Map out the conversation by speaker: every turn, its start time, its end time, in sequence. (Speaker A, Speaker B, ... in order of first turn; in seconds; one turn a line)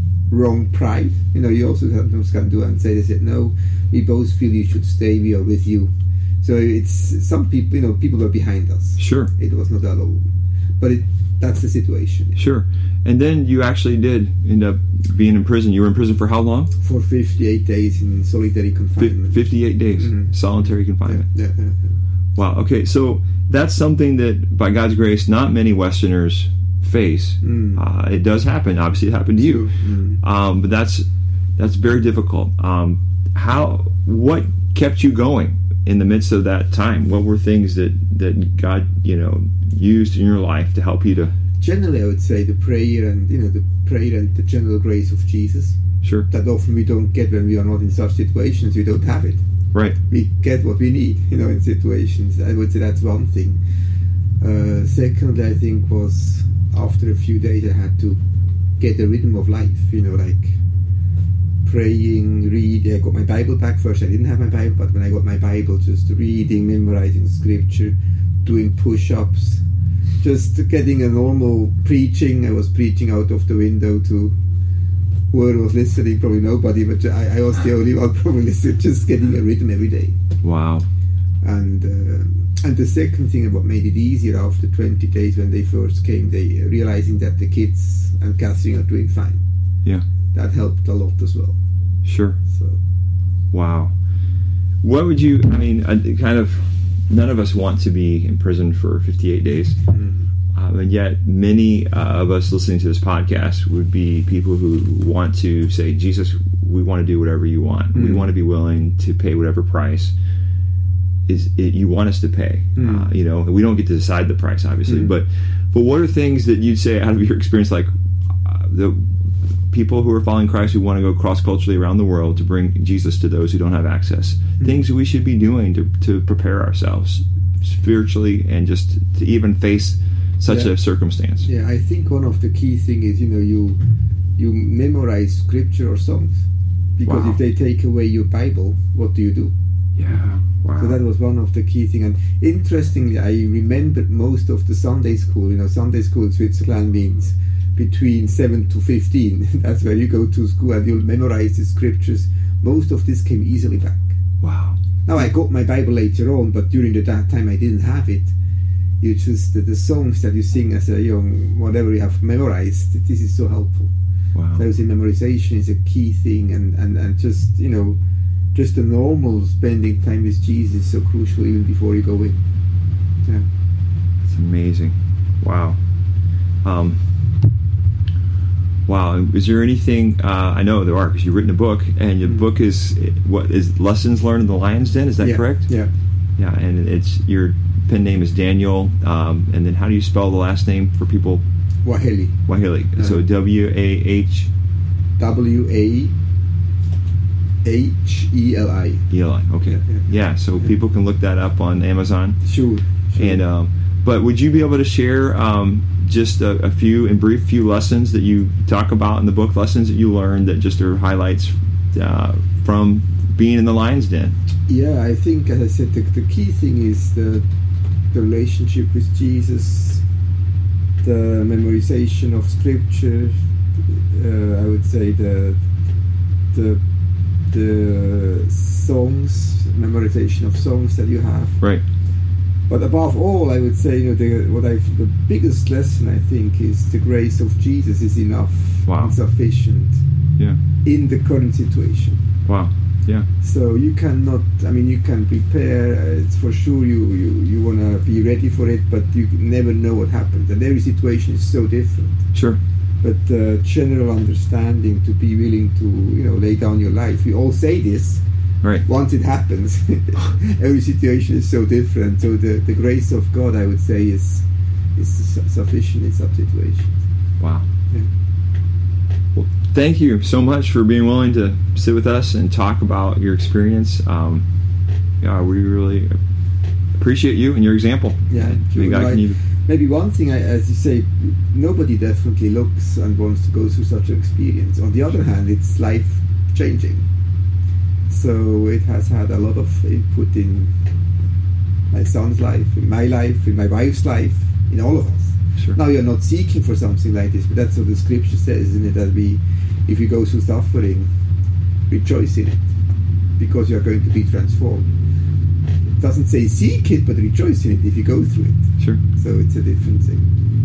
Speaker A: 0.3-12.4
Speaker B: 9.0-9.3
Speaker B: 12.4-16.7
Speaker A: 16.8-19.4
Speaker B: 19.0-21.3
Speaker A: 20.0-22.0
Speaker B: 22.4-31.1
Speaker A: 27.4-27.8
Speaker A: 29.4-30.2
Speaker B: 31.6-41.3
Speaker A: 41.6-49.5
Speaker B: 46.0-46.3
Speaker A: 50.1-53.6
Speaker A: 54.4-58.2
Speaker A: 58.8-60.6
Speaker A: 61.6-69.6
Speaker A: 70.2-74.4
Speaker A: 75.3-80.2
Speaker B: 80.4-80.9
Speaker A: 81.4-89.4
Speaker A: 90.3-91.6
Speaker B: 92.0-92.4
Speaker A: 92.5-92.8
Speaker B: 93.5-93.9
Speaker B: 94.8-99.8
Speaker A: 99.9-100.3
Speaker B: 100.5-110.1
Speaker A: 107.9-108.3
Speaker B: 111.3-117.9
Speaker A: 112.8-113.1
Speaker A: 114.9-115.2
Speaker B: 118.4-131.5
Speaker A: 130.5-130.8
Speaker A: 131.4-133.8
Speaker A: 134.4-136.4
Speaker A: 137.0-139.5
Speaker B: 137.1-137.4
Speaker B: 140.0-141.0
Speaker A: 140.1-154.2
Speaker B: 154.4-154.8
Speaker A: 155.1-158.3
Speaker A: 159.0-163.9
Speaker B: 164.3-164.7
Speaker A: 164.6-168.0
Speaker A: 168.5-172.4
Speaker B: 174.3-175.8
Speaker B: 176.6-177.0
Speaker B: 178.9-185.8
Speaker A: 182.2-182.5
Speaker A: 185.2-185.9
Speaker B: 186.4-191.4
Speaker A: 191.8-192.4
Speaker B: 192.5-194.5
Speaker A: 192.9-193.2
Speaker A: 195.2-196.2
Speaker A: 197.6-199.1
Speaker B: 199.1-202.4
Speaker A: 199.6-200.7
Speaker A: 202.4-203.5
Speaker B: 203.2-214.4
Speaker A: 214.7-217.5
Speaker A: 218.1-220.0
Speaker A: 221.0-223.4
Speaker A: 223.9-225.7
Speaker A: 226.5-226.8
Speaker A: 227.5-231.6
Speaker A: 232.7-240.0
Speaker B: 238.9-239.2
Speaker A: 240.8-242.2
Speaker B: 242.5-243.3
Speaker A: 243.4-252.2
Speaker B: 252.3-252.6
Speaker A: 253.0-258.2
Speaker A: 258.8-267.0
Speaker B: 267.4-267.7
Speaker B: 269.4-274.4
Speaker B: 275.2-276.2
Speaker B: 277.0-279.4
Speaker A: 278.3-287.1
Speaker A: 288.1-290.8
Speaker A: 291.9-301.1
Speaker A: 301.9-302.8
Speaker A: 303.4-304.9
Speaker A: 306.0-310.3